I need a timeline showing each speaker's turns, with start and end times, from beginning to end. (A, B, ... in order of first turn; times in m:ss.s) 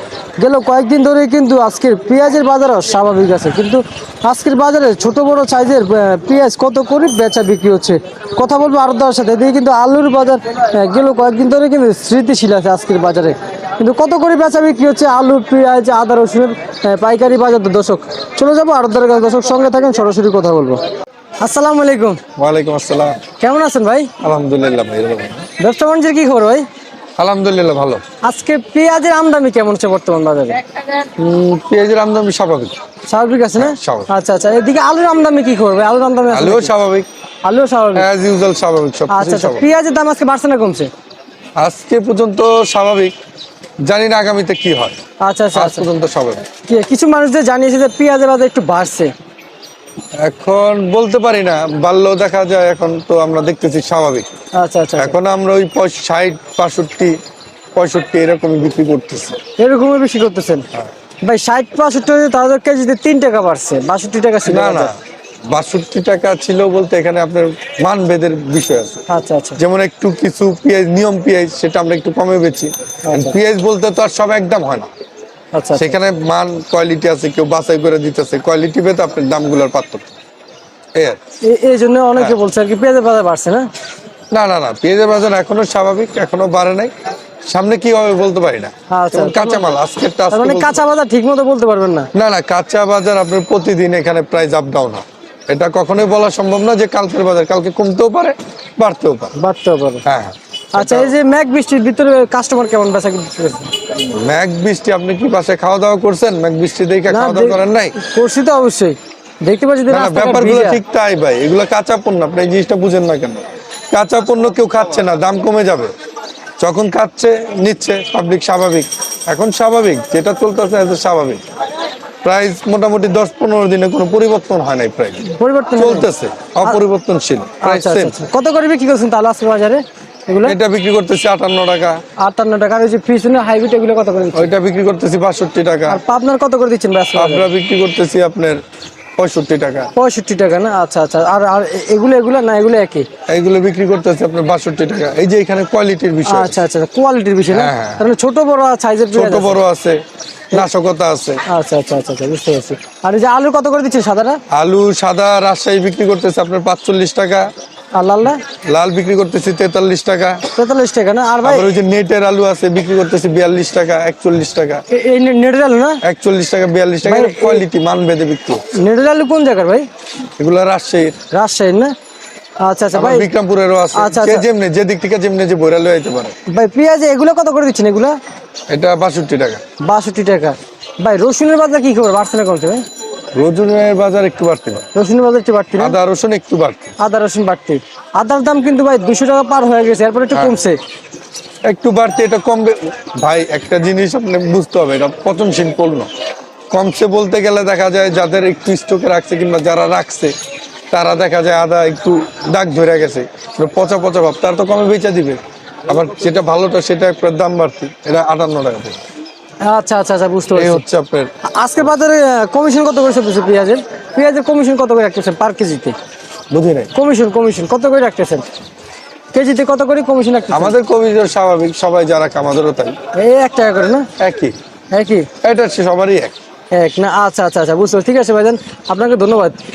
0:00.4-0:20.8 A
0:21.4-0:22.2 A
0:22.4-0:23.2 B
0:23.4-0:24.1 A
0:24.2-0:25.5 B
0:25.6-0:26.7 A
0:27.2-0:28.0 B
0:28.2-0:30.6 A
0:31.2-0:32.8 B
0:33.1-0:36.7 A
0:33.6-0:34.1 B
0:36.3-0:37.1 B
0:37.4-0:38.1 A
0:38.0-0:39.7 B
0:39.1-0:40.9 A
0:41.6-0:43.1 B
0:43.8-0:45.0 B
0:45.2-0:45.9 A
0:45.5-0:46.4 B
0:46.7-0:49.1 A
0:50.2-0:54.3 B
0:54.6-0:55.2 A
0:55.0-0:57.2 B
0:57.8-0:59.4 B
0:59.6-1:00.7 A
1:01.2-1:04.9 A
1:04.5-1:05.0 B
1:05.5-1:09.0 B
1:09.1-1:09.6 A
1:09.6-1:14.9 B
1:13.0-1:13.4 A
1:15.5-1:16.0 A
1:15.8-1:20.1 B
1:21.0-1:21.2 B
1:21.4-1:23.7 A
1:24.3-1:26.9 B
1:27.5-1:30.8 B
1:28.9-1:29.6 A
1:30.3-1:32.1 A
1:32.1-1:39.3 B
1:39.4-1:40.0 A
1:40.0-1:41.1 B
1:40.8-1:43.7 A
1:44.0-1:48.0 B
1:47.1-1:50.8 A
1:49.9-1:55.9 B
1:56.6-2:01.4 B
2:02.2-2:08.2 B
2:05.2-2:06.1 A
2:07.6-2:10.6 A
2:10.5-2:12.0 B
2:12.2-2:14.5 A
2:14.4-2:16.0 B
2:15.9-2:17.5 A
2:17.2-2:18.6 B
2:19.2-2:19.9 B
2:20.0-2:23.1 A
2:23.3-2:26.6 B
2:26.3-2:29.6 A
2:27.5-2:28.0 B
2:29.1-2:31.4 B
2:31.5-2:34.4 A
2:34.5-2:37.5 B
2:37.9-2:38.4 A
2:38.7-2:40.4 B
2:40.6-2:41.7 A
2:41.4-2:44.8 B
2:44.9-2:46.0 A
2:46.0-2:48.7 B
2:47.0-2:47.6 A
2:48.7-2:49.9 A
2:50.4-2:51.2 B
2:51.3-2:52.0 A
2:52.6-2:53.3 A
2:52.9-2:56.3 B
2:54.0-2:54.4 A
2:56.5-2:58.2 A
2:58.7-2:59.6 B
2:59.8-3:02.8 A
3:03.4-3:04.9 B
3:05.0-3:06.0 A
3:05.8-3:06.9 B
3:07.0-3:10.8 A
3:10.3-3:10.6 B
3:11.7-3:16.1 B
3:16.7-3:20.3 B
3:20.9-3:29.0 B
3:29.6-3:30.8 A
3:30.5-3:31.3 B
3:31.4-3:36.0 A
3:36.5-3:36.9 B
3:36.9-3:38.4 A
3:39.3-3:40.7 A
3:40.5-3:43.0 B
3:43.1-3:44.1 A
3:44.2-3:44.6 B
3:44.9-3:45.3 A
3:45.4-3:46.3 B
3:46.7-3:49.6 A